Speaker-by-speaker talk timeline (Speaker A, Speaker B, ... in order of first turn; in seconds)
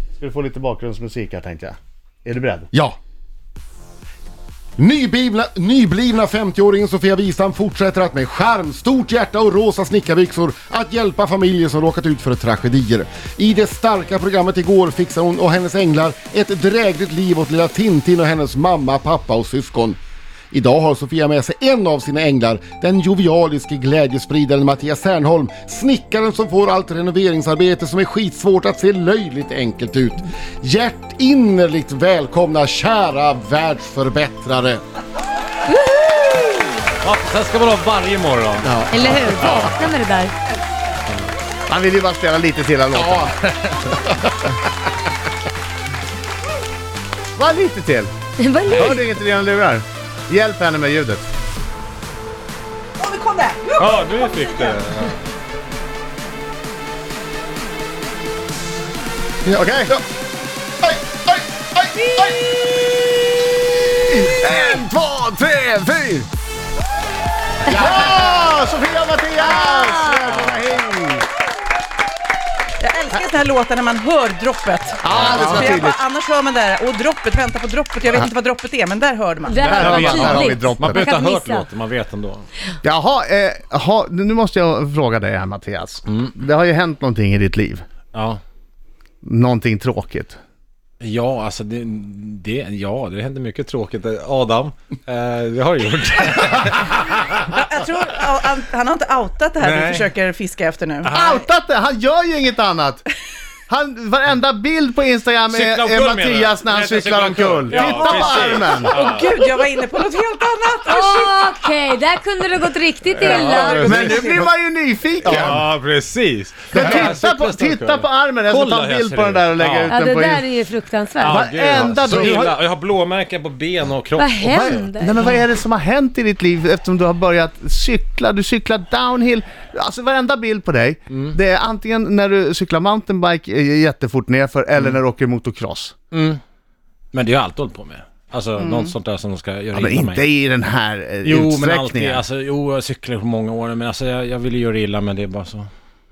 Speaker A: 0.1-2.7, 41.7-44.0, 47.4-48.1, 48.6-51.2, 59.5-59.9, 67.7-71.2, 75.0-76.0, 79.6-81.1, 82.8-87.8, 89.2-90.4, 101.1-103.0, 103.7-109.0, 113.7-115.6, 116.7-120.4, 121.2-122.5, 124.5-135.9, 139.7-142.2
Speaker B: 2.7-3.0, 4.8-20.0, 20.5-34.8, 38.6-39.7, 42.9-43.3, 44.1-44.5, 59.5-60.0, 60.8-62.8, 63.6-66.3, 67.7-68.4
Speaker C: 35.7-36.5, 38.9-40.3, 48.4-49.0, 69.4-70.3, 79.4-81.7, 110.8-114.0, 119.9-121.4, 124.2-125.3
Speaker D: 37.0-38.8, 39.4-39.7, 53.8-55.2, 75.1-75.8, 79.8-82.5, 86.1-86.3, 88.1-88.4, 91.0-97.4, 99.6-100.1, 101.0-101.4, 105.5-109.3, 113.1-114.5, 115.2-120.0, 121.2-125.3, 131.1-131.3, 136.1-136.4, 137.1-140.2, 141.2-145.7
Speaker E: 53.0-54.8, 72.8-80.4, 97.4-101.3, 107.7-111.3, 113.3-114.3, 138.6-138.9